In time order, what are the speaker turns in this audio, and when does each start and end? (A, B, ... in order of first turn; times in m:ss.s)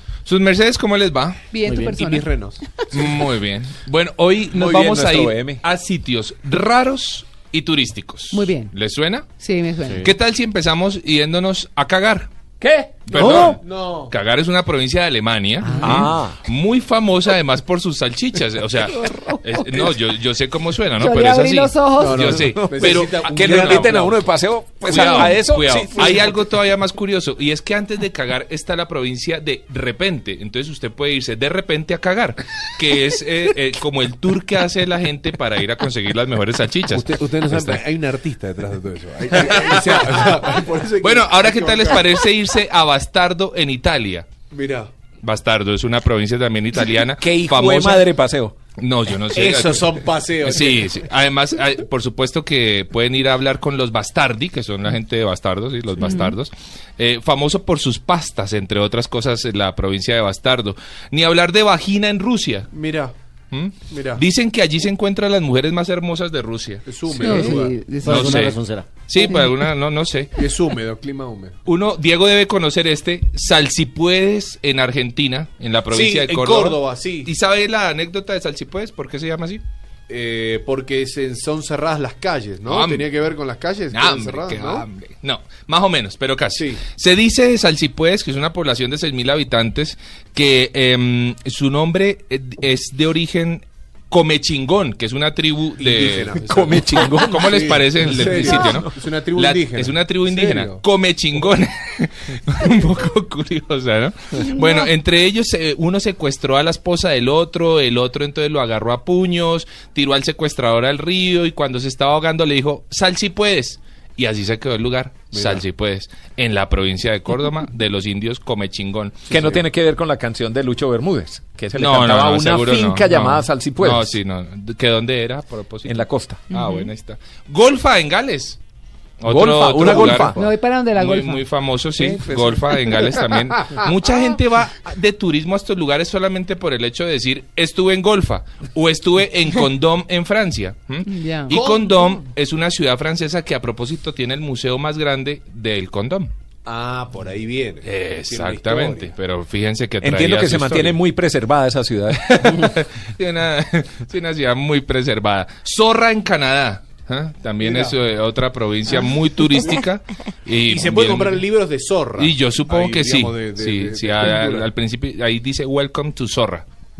0:00.3-0:01.4 A
0:01.5-0:03.2 B
0:01.7-0:02.0 C
0:01.9-0:03.0 D
0:02.9-0:09.3 A
0:04.6-0:05.4 E
0:04.7-0:05.6 C
0:08.3-0:08.7 B
0:09.4-0:10.1 B
0:10.0-0:12.3 A
0:12.6-0:13.6 C
0:13.1-0:24.0 A
0:13.1-0:14.1 D
0:15.6-0:16.1 B
0:15.8-0:16.3 C
0:19.0-0:19.6 B
0:21.0-0:22.2 B
0:22.0-0:24.3 D
0:22.5-0:24.1 C
0:22.6-0:26.1 E
0:24.8-0:37.8 A
0:25.0-0:25.8 C
0:36.9-0:42.2 D
0:39.3-0:40.4 A
0:41.0-0:44.3 A
0:44.5-0:44.9 D
0:45.2-0:48.1 A
0:47.2-0:48.5 E
0:48.8-1:02.7 A
0:49.3-0:51.1 D
0:56.0-0:56.4 B
1:02.7-1:03.1 D
1:03.5-1:07.4 A
1:03.9-1:04.2 D
1:06.9-1:07.8 D
1:07.2-1:08.4 B
1:08.0-1:10.4 A
1:08.0-1:08.9 C
1:10.4-1:11.6 D
1:11.6-1:19.6 A
1:15.9-1:17.3 D
1:20.1-1:24.9 D
1:22.7-1:23.1 A
1:23.9-1:36.5 A
1:26.5-1:26.8 D
1:35.8-1:40.8 D
1:36.5-1:37.5 E
1:37.2-1:59.4 A
1:38.1-1:38.8 E
1:55.3-1:55.6 D
1:59.3-1:59.6 D
1:59.4-2:03.1 E
2:01.4-2:04.0 C
2:01.8-2:08.6 A
2:03.6-2:04.0 E
2:05.9-2:06.2 C
2:06.5-2:06.9 B
2:09.2-2:10.4 A
2:09.3-2:10.4 C
2:09.5-2:10.3 E
2:09.8-2:10.2 D
2:10.3-2:11.4 B
2:11.0-2:26.3 A
2:12.0-2:13.9 D
2:21.1-2:21.6 B
2:21.5-2:22.2 D
2:26.7-2:29.1 D
2:27.8-2:31.0 A
2:30.0-2:31.4 C
2:30.4-2:32.0 E
2:32.3-2:41.5 A
2:37.6-2:38.0 D
2:40.6-2:44.7 D
2:42.2-2:46.7 A